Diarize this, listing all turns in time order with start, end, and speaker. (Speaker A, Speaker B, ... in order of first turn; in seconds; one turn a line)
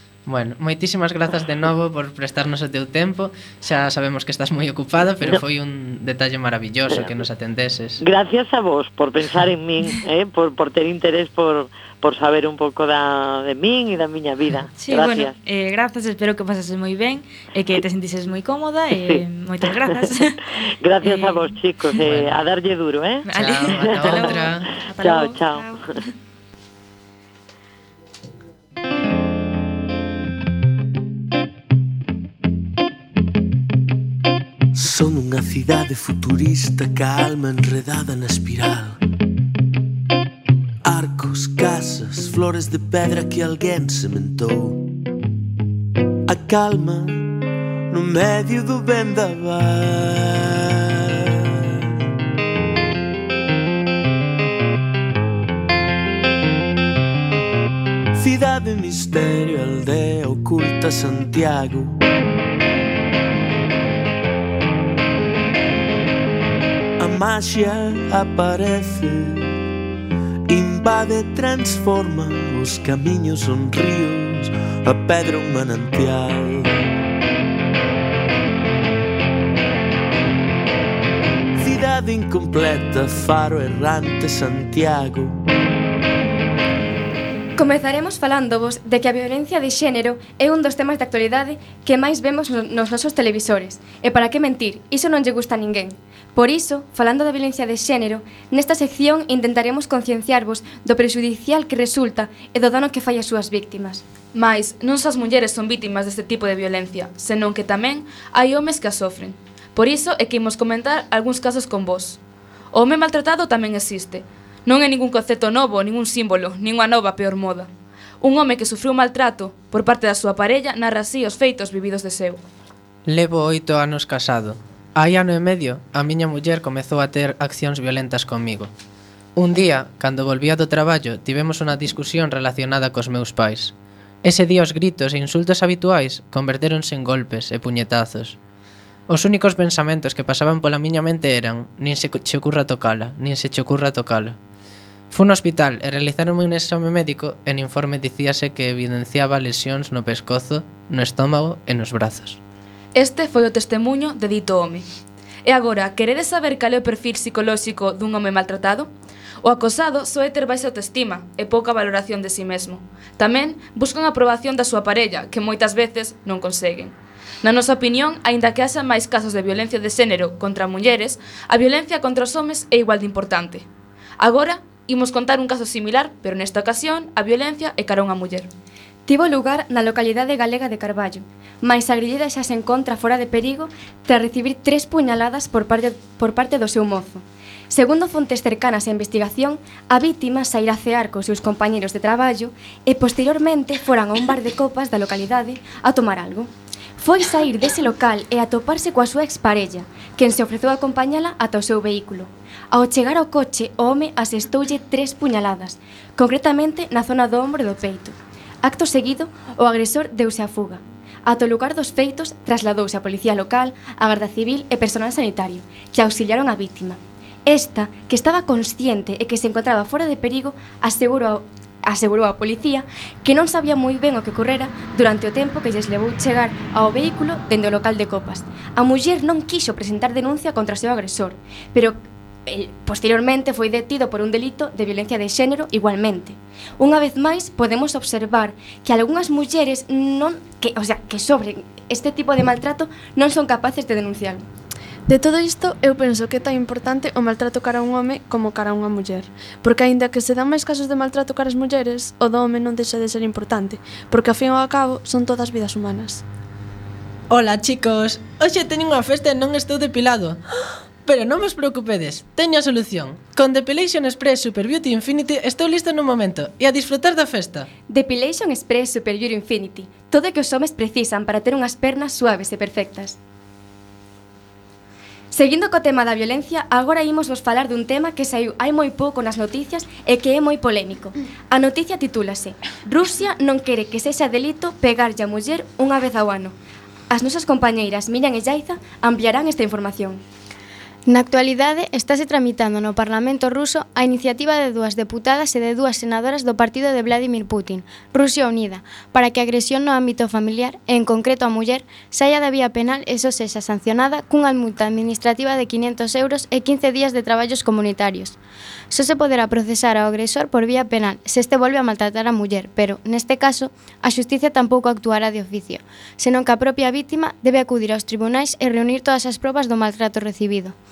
Speaker A: 0.3-8.0
Speaker B: 8.0-15.3
Speaker C: 14.8-20.4
Speaker B: 18.9-19.2
Speaker B: 20.7-25.8
Speaker C: 21.0-21.5
Speaker A: 22.1-22.4
Speaker C: 23.3-25.9
Speaker A: 23.3-24.7
Speaker D: 34.8-39.0
Speaker D: 40.9-44.9
Speaker D: 46.3-47.4
Speaker D: 47.9-51.3
Speaker D: 58.1-62.0
Speaker D: 67.0-69.6
Speaker D: 70.5-77.0
Speaker D: 81.6-85.4
Speaker E: 87.6-104.0
Speaker F: 104.3-112.2
Speaker F: 112.7-117.7
Speaker F: 118.2-122.4
Speaker A: 123.1-128.7
Speaker A: 129.4-138.4
Speaker A: 139.1-144.4
Speaker A: 145.1-152.4
Speaker F: 152.9-154.9
Speaker F: 155.4-158.9
Speaker F: 159.4-173.7
Speaker F: 174.2-178.5
Speaker E: 179.1-244.4
Speaker G: 245.1-256.2
Speaker A: 257.3-260.4
Speaker A: 261.1-267.7
Speaker E: 267.9-273.2
Speaker E: 275.3-286.5
Speaker E: 287.1-290.2
Speaker H: 291.1-308.4
Speaker H: 308.9-320.8